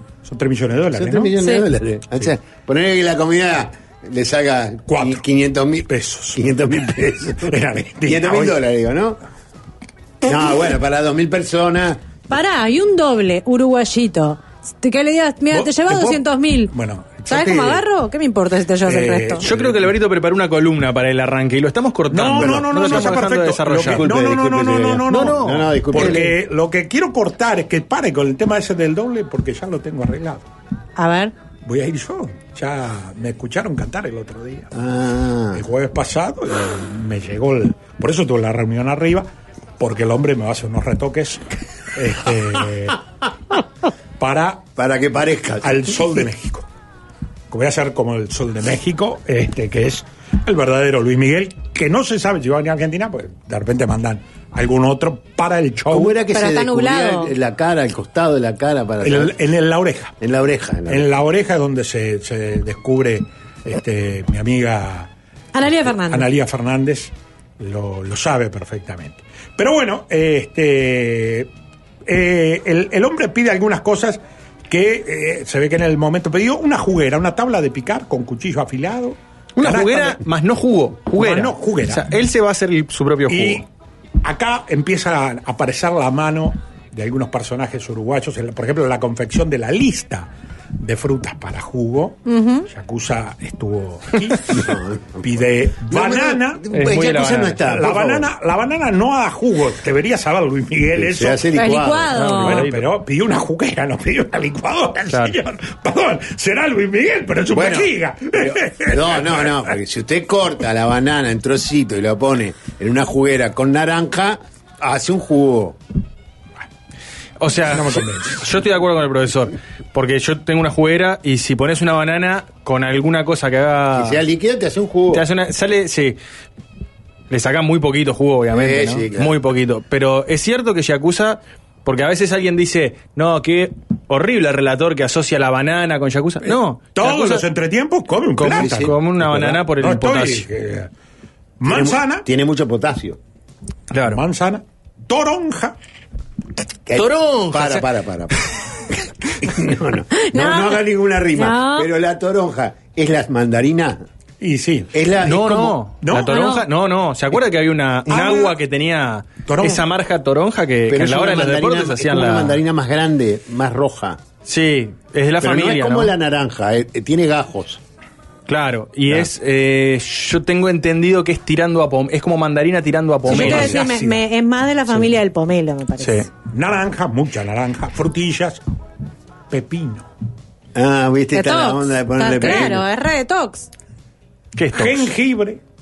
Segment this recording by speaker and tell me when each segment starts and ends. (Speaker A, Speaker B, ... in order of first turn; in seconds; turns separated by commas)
Speaker A: 0.2-1.4, Speaker B: 0.9-9.2, Speaker C: 1.4-1.6, Speaker A: 4.9-5.2, Speaker A: 5.9-6.4, Speaker A: 7.5-8.6, Speaker B: 10.2-12.0, Speaker C: 12.3-16.7, Speaker A: 15.5-17.8, Speaker C: 17.3-19.4, Speaker A: 18.8-19.9, Speaker D: 19.4-24.1, Speaker A: 22.1-30.4, Speaker B: 22.2-23.2, Speaker B: 23.8-26.3, Speaker D: 25.1-26.3, Speaker C: 31.0-31.3, Speaker A: 31.6-34.7, Speaker B: 34.7-35.6, Speaker A: 35.5-43.0, Speaker A: 44.2-44.7, Speaker B: 44.8-46.2, Speaker A: 45.6-46.7, Speaker A: 47.5-56.1, Speaker B: 55.9-59.4, Speaker C: 56.3-57.3, Speaker A: 59.0-60.1, Speaker B: 60.2-61.1, Speaker A: 60.9-65.1, Speaker C: 65.5-66.3, Speaker A: 65.6-71.5, Speaker A: 72.0-80.2, Speaker D: 79.5-83.6, Speaker A: 81.2-82.1, Speaker A: 83.3-83.7, Speaker A: 84.2-94.7, Speaker C: 92.3-92.7, Speaker B: 94.5-98.3, Speaker A: 95.2-96.6, Speaker D: 96.7-97.6, Speaker A: 97.7-101.4, Speaker B: 100.9-102.1, Speaker C: 101.5-102.6, Speaker D: 102.1-102.9, Speaker A: 102.3-109.7, Speaker D: 105.1-105.4, Speaker B: 107.5-115.8, Speaker D: 117.4-124.2, Speaker A: 117.6-118.4, Speaker B: 123.9-125.2, Speaker D: 125.1-126.2, Speaker D: 127.3-137.4, Speaker B: 128.5-129.4, Speaker A: 136.4-140.9, Speaker D: 138.4-140.4, Speaker B: 138.5-139.0, Speaker A: 141.6-142.2, Speaker B: 141.6-143.2, Speaker D: 143.9-144.2, Speaker A: 144.0-145.8, Speaker B: 146.8-148.4, Speaker D: 146.9-148.4, Speaker B: 149.4-154.0, Speaker C: 150.1-151.9, Speaker A: 154.4-154.9, Speaker B: 154.9-155.8, Speaker D: 155.2-162.6, Speaker A: 156.0-156.5, Speaker C: 156.2-156.7, Speaker A: 158.1-158.6, Speaker A: 159.5-159.8, Speaker B: 160.9-164.2, Speaker D: 164.4-166.1, Speaker B: 165.4-167.8, Speaker D: 168.5-173.8, Speaker A: 173.2-174.2, Speaker C: 173.3-176.3, Speaker A: 176.0-178.6, Speaker A: 179.5-180.1, Speaker B: 180.7-182.8, Speaker C: 181.3-183.7, Speaker A: 182.4-182.7, Speaker D: 184.5-185.1, Speaker A: 184.7-185.6